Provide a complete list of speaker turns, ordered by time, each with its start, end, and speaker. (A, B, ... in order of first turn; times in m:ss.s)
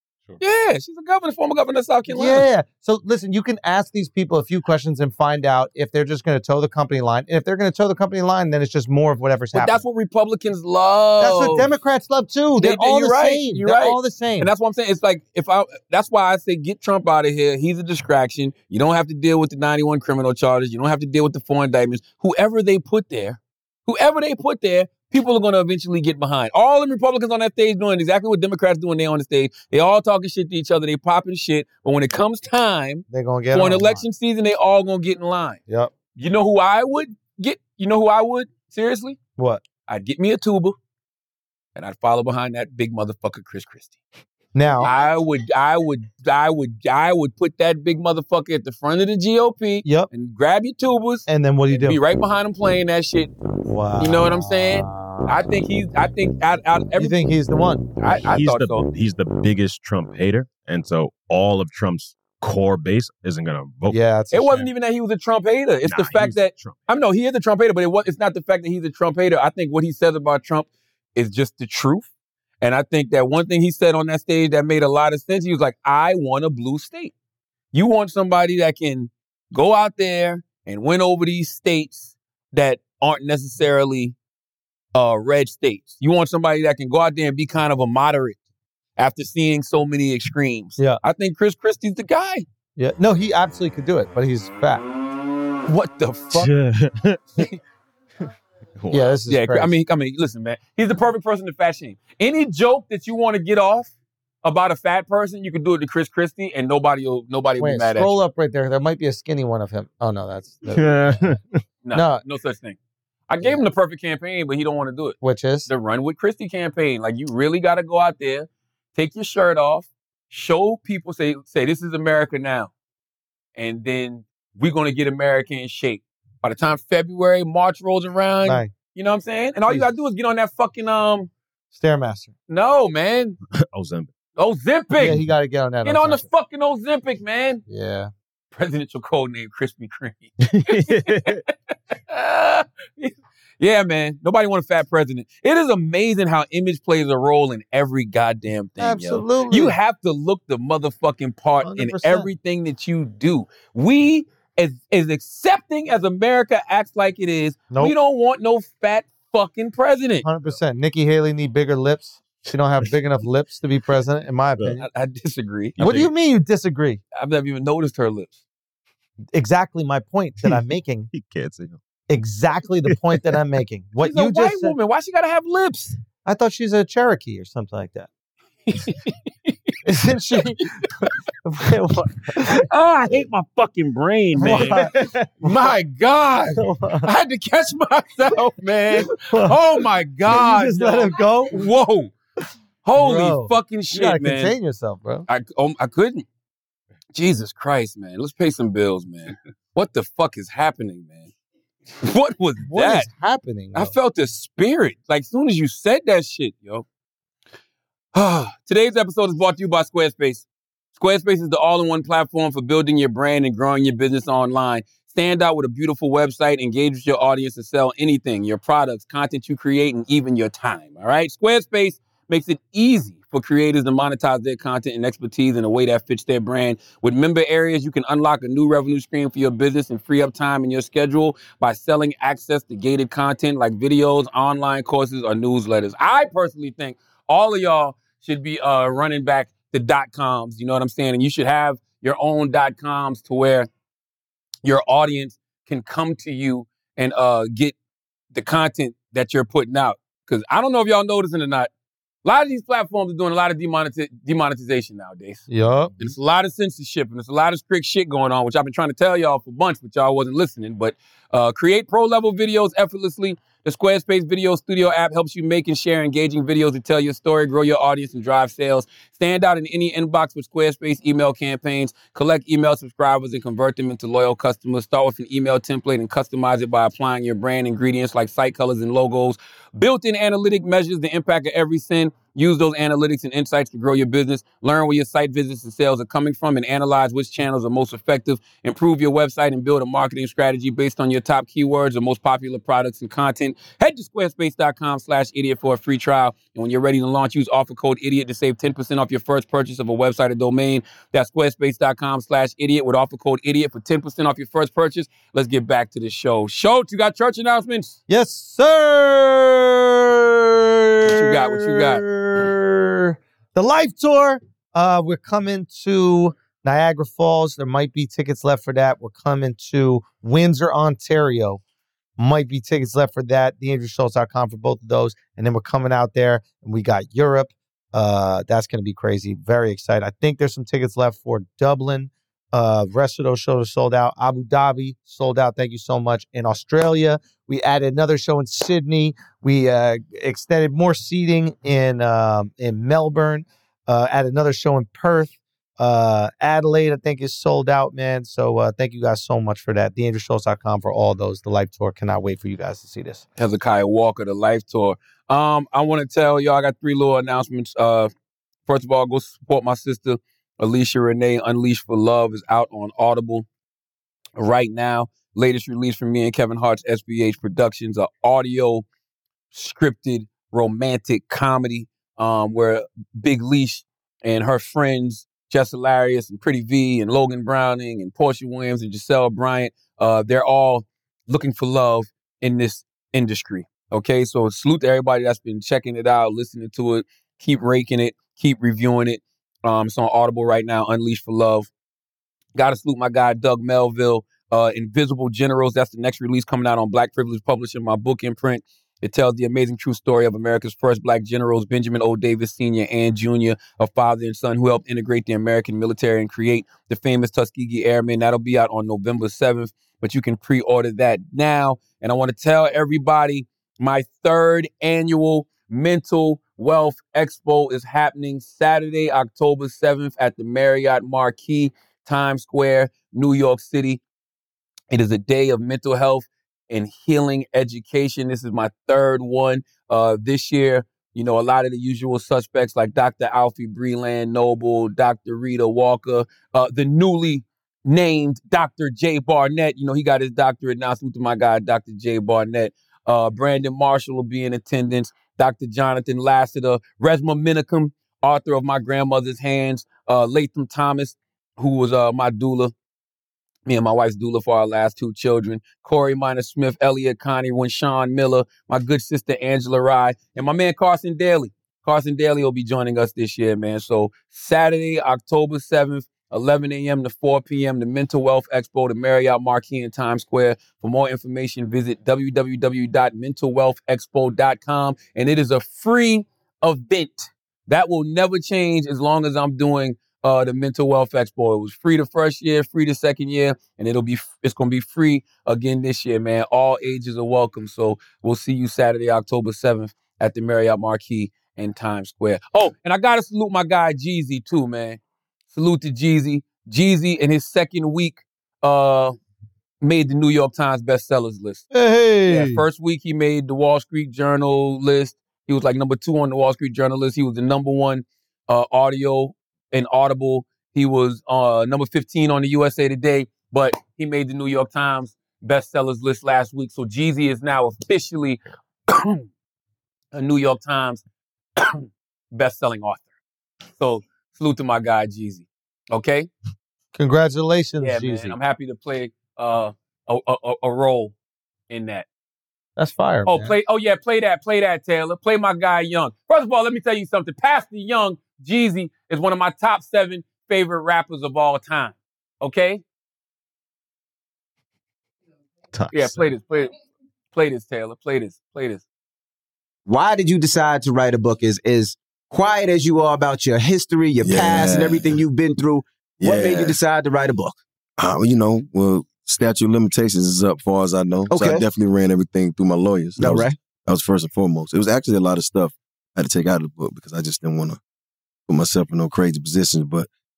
0:00.4-0:02.4 A
0:02.1-0:09.8 B
0:09.5-0:11.7 A
0:11.2-0:14.5 B
0:12.6-0:35.6 A
0:33.1-0:34.0 B
0:35.7-0:35.9 B
0:36.2-0:39.2 A
0:39.4-0:39.6 B
0:39.9-0:40.8 A
0:41.8-0:44.0 A
0:44.5-0:44.9 B
0:44.8-0:53.3 A
0:49.8-0:50.1 B
0:51.3-0:52.0 B
0:53.6-0:55.4 B
0:54.0-0:57.2 A
0:57.0-0:57.9 B
0:58.0-0:58.8 A
0:58.1-1:04.0 C
1:03.9-1:04.7 B
1:04.3-1:12.1 A
1:05.8-1:06.8 C
1:12.6-1:17.1 A
1:17.7-1:24.1 A
1:24.9-1:28.4 A
1:29.0-1:32.4 A
1:32.8-1:34.8 B
1:35.7-1:36.5 A
1:36.3-1:37.5 C
1:38.8-1:39.1 C
1:38.9-1:39.7 B
1:39.3-1:43.9 A
1:44.4-1:48.2 A
1:47.6-1:51.1 B
1:50.7-1:51.6 C
1:51.8-1:52.8 A
1:51.9-1:52.2 B
1:53.3-2:02.7 A
1:55.2-1:55.7 B
2:03.6-2:11.3 A
2:08.4-2:08.7 B
2:11.7-2:12.3 B
2:12.5-2:13.4 A
2:13.7-2:14.1 C
2:14.4-2:15.2 A
2:14.9-2:16.2 B
2:15.8-2:17.6 A
2:17.7-2:18.1 B
2:18.5-2:21.5 A
2:20.4-2:21.4 C
2:22.1-2:40.2 A
2:28.8-2:29.8 B
2:31.6-2:32.3 B
2:37.7-2:38.0 B
2:40.2-2:44.8 B
2:44.8-2:45.8 A
2:45.8-2:46.1 C
2:45.8-2:47.0 B
2:47.2-2:48.4 A
2:49.3-2:51.1 B
2:50.4-2:51.8 C
2:52.1-2:54.7 B
2:54.0-2:56.0 A
2:56.2-2:58.1 B
2:58.7-2:59.7 A
2:59.8-3:00.6 B
3:00.4-3:01.1 A
3:01.4-3:02.6 B
3:02.4-3:12.1 A
3:04.4-3:05.6 B
3:04.4-3:05.0 C
3:06.6-3:07.1 B
3:09.1-3:11.7 B
3:12.8-3:14.5 A
3:12.9-3:15.3 B
3:15.3-3:16.2 A
3:17.1-3:21.3 A
3:22.0-3:23.1 A
3:22.6-3:23.9 B
3:23.7-3:26.8 A
3:28.1-4:03.7 A
4:04.6-4:07.8 A
4:08.3-4:11.7 A
4:12.2-4:15.5 A
4:15.5-4:15.9 B
4:16.0-5:08.0 A
5:08.1-5:21.6 B
5:11.0-5:12.0 A
5:22.2-5:53.2 B
5:53.4-5:58.1 A
5:58.7-6:03.4 A
6:04.4-6:08.8 A
6:09.5-6:31.7 A
6:32.5-7:04.0 A
7:04.9-7:32.7 A
7:33.6-8:15.0 A
8:15.5-8:19.1 A
8:19.8-8:21.7 A
8:21.7-8:22.6 B
8:22.3-8:39.3 A
8:40.1-8:41.0 A
8:41.6-8:43.0 A
8:43.8-8:46.3 A
8:46.9-8:48.4 B
8:47.8-8:51.1 A
8:51.7-8:52.1 A
8:52.8-8:53.5 B
8:53.2-9:02.8 A
9:05.8-9:06.0 B
9:05.9-9:06.7 A
9:07.3-9:08.8 A
9:09.8-9:17.5 D
9:14.2-9:15.2 E
9:16.2-9:16.8 E
9:18.0-9:27.8 E
9:21.3-9:21.6 D
9:23.2-9:23.6 D
9:28.5-9:30.1 E